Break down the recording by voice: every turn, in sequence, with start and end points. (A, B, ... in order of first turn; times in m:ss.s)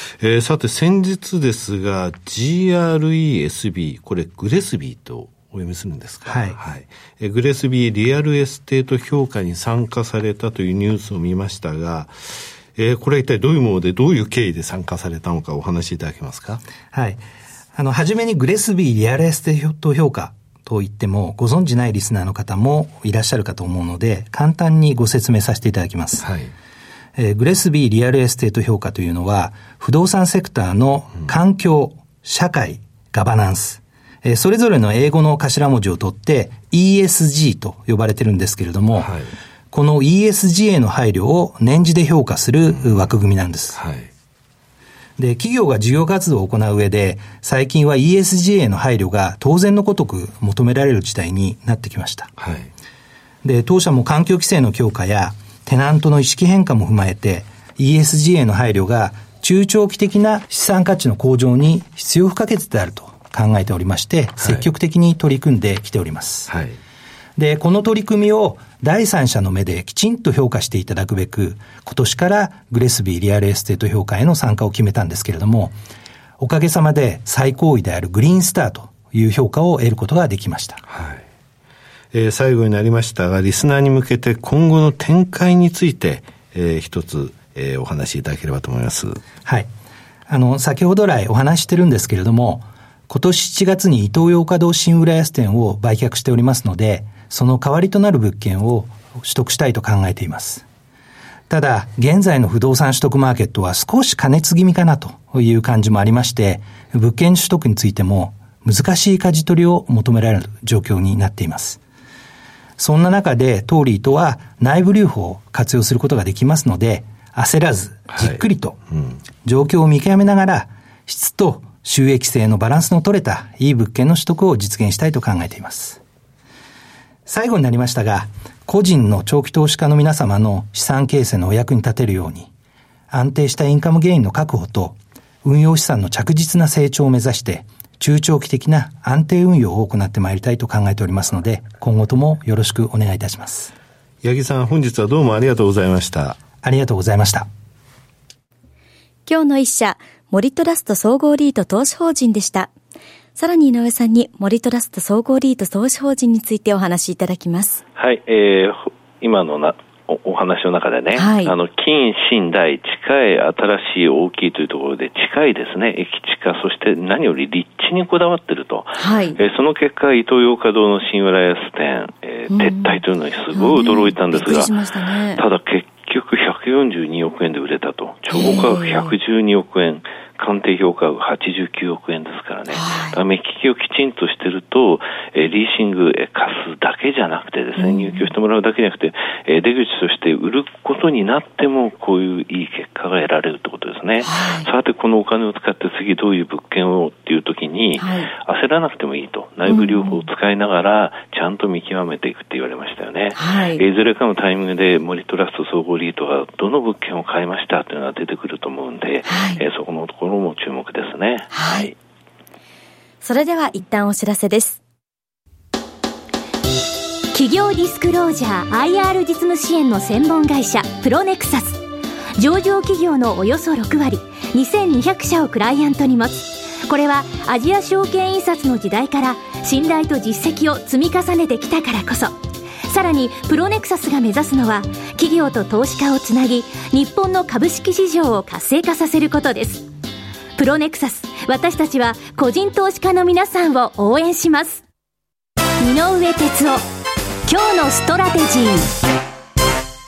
0:00.2-0:16.6 A
0:06.3-0:06.6 B
0:16.9-0:17.2 B
0:17.8-0:26.3 B
0:26.2-0:26.5 A
0:27.2-0:39.1 B
0:39.0-0:39.3 A
0:39.7-0:43.8 B
0:42.8-0:43.1 A
0:43.8-0:44.1 A
0:45.2-0:52.3 B
0:52.4-0:52.7 A
0:53.4-1:06.5 B
1:04.4-1:04.7 A
1:06.5-1:06.8 A
1:07.4-1:15.8 B
1:16.4-1:20.8 B
1:20.9-1:21.2 A
1:22.1-1:29.2 A
1:30.3-1:40.6 B
1:41.5-1:51.8 B
1:52.8-1:58.8 B
1:59.4-2:06.0 B
2:07.3-2:12.5 B
2:13.1-2:23.7 B
2:24.2-2:26.4 A
2:26.6-2:27.5 B
2:29.3-2:32.7 C
2:33.4-2:37.8 C
2:38.0-2:54.7 D
2:41.2-2:41.5 C
2:49.0-2:49.4 C
2:52.5-2:53.0 C
2:53.5-2:55.4 C
2:55.4-3:31.9 D
2:58.3-2:59.1 C
3:02.7-3:03.2 C
3:07.8-3:08.3 C
3:14.2-3:14.7 C
3:18.0-3:18.3 C
3:19.7-3:20.2 C
3:23.4-3:23.8 C
3:29.3-3:29.6 C
3:31.5-3:31.9 C
3:33.2-3:34.8 C
3:37.3-3:41.8 E
3:42.4-3:59.9 E
4:00.6-4:04.8 E
4:05.8-4:06.8 E
4:07.5-4:08.9 E